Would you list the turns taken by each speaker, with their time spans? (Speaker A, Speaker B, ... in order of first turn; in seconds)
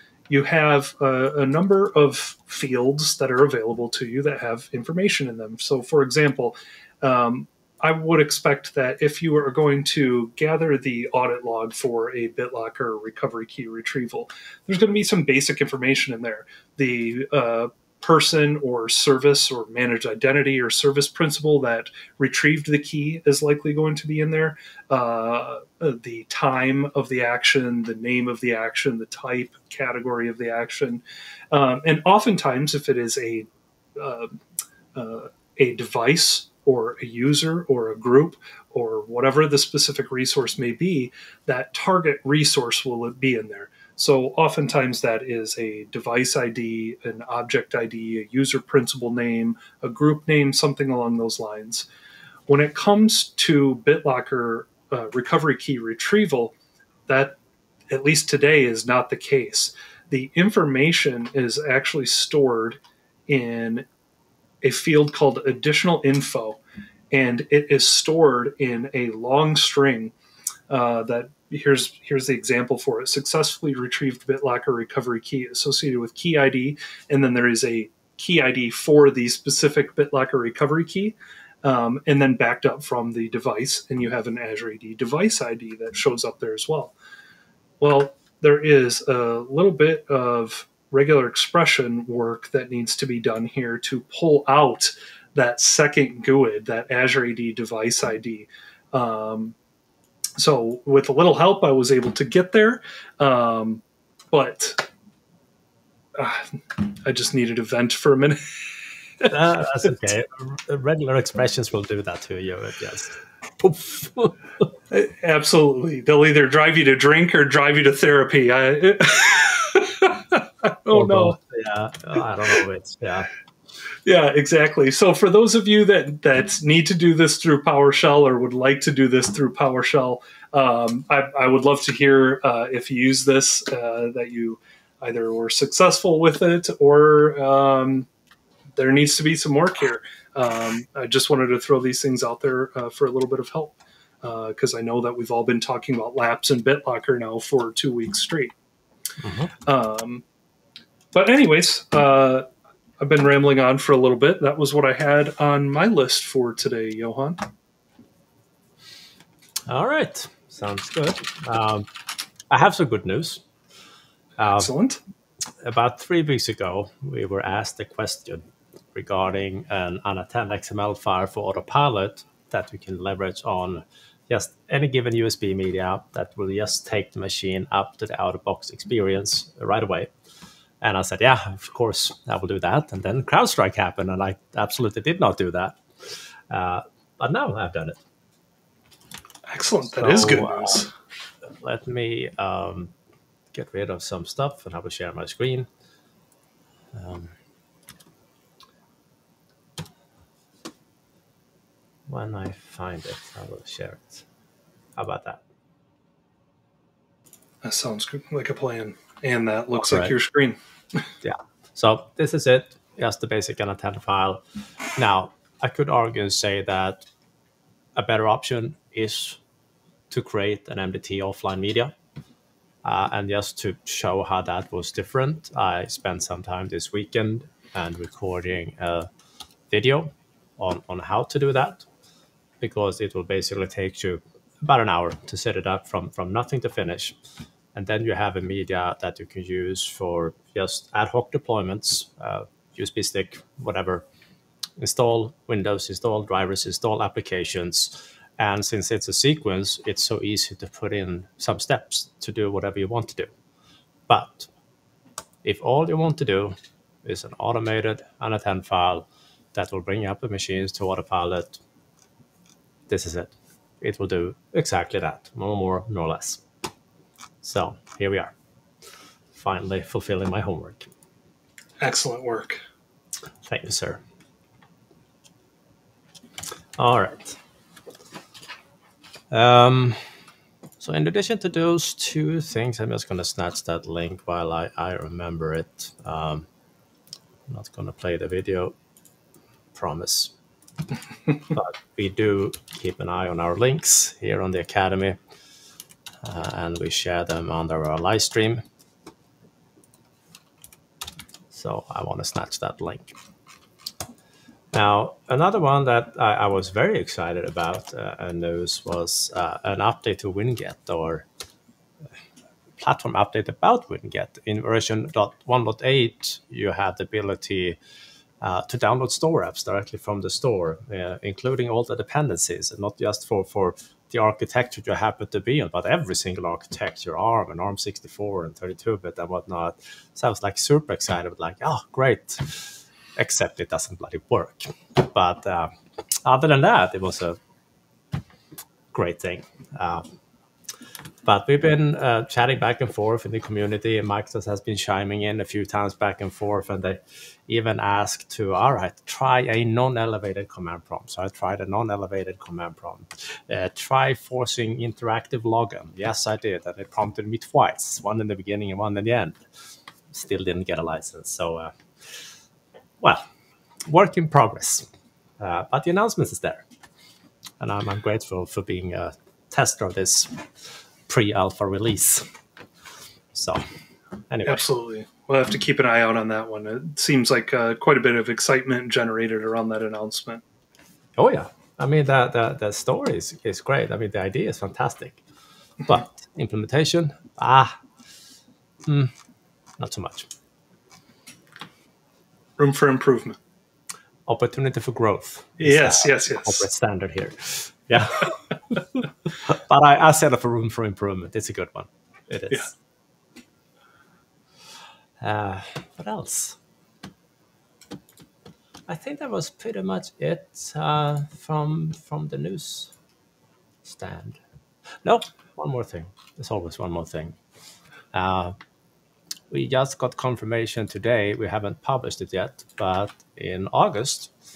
Speaker A: 0.3-34.4, 35.0-51.9, 52.5-56.5, 57.1-57.4, 57.9-63.9, 64.6-66.6, 67.1-70.1, 70.7-87.0, 87.8-99.6, 100.4-104.9, 106.2-108.4, 114.9-121.4, 124.0-138.1, 138.8-148.5, 149.7-150.2, 151.1-152.4, 153.0-157.4, 164.4-165.0, 189.5-190.9, 207.6-211.0, 271.8-272.6, 374.4-380.4, 392.6-393.4, 395.6-396.7
Speaker B: 109.3-114.4, 120.9-123.3, 149.2-149.5, 159.7-161.9, 162.5-163.4, 164.4-164.7, 165.6-180.1, 180.8-185.8, 186.5-188.0, 189.9-190.8, 191.6-192.9, 193.5-195.7, 196.9-197.3, 202.1-204.2, 205.0-205.4, 209.7-210.1, 211.2-214.4, 215.0-217.1, 218.0-219.4, 220.1-221.9, 222.8-229.1, 229.7-231.8, 232.6-237.2, 237.8-244.1, 244.8-253.3, 254.1-254.5, 255.4-261.6, 262.9-266.4, 267.4-268.3, 269.3-270.9, 273.4-274.0, 276.8-277.4, 279.3-280.0, 280.8-286.5, 287.5-288.7, 289.8-290.3, 291.5-295.2, 296.2-298.6, 301.5-303.2, 304.7-311.3, 312.8-317.8, 318.4-335.7, 336.2-337.4, 338.9-340.1, 341.2-359.4, 360.1-362.2, 363.9-364.9, 365.4-366.6, 367.6-370.5, 371.1-372.2, 373.3-373.6, 374.3-374.6, 381.2-385.2, 385.9-387.8, 388.9-389.1, 389.8-390.3, 394.3-402.7, 405.2-406.6, 408.9-412.9, 413.8-414.4, 415.0-417.4, 418.1-418.6, 419.5-424.3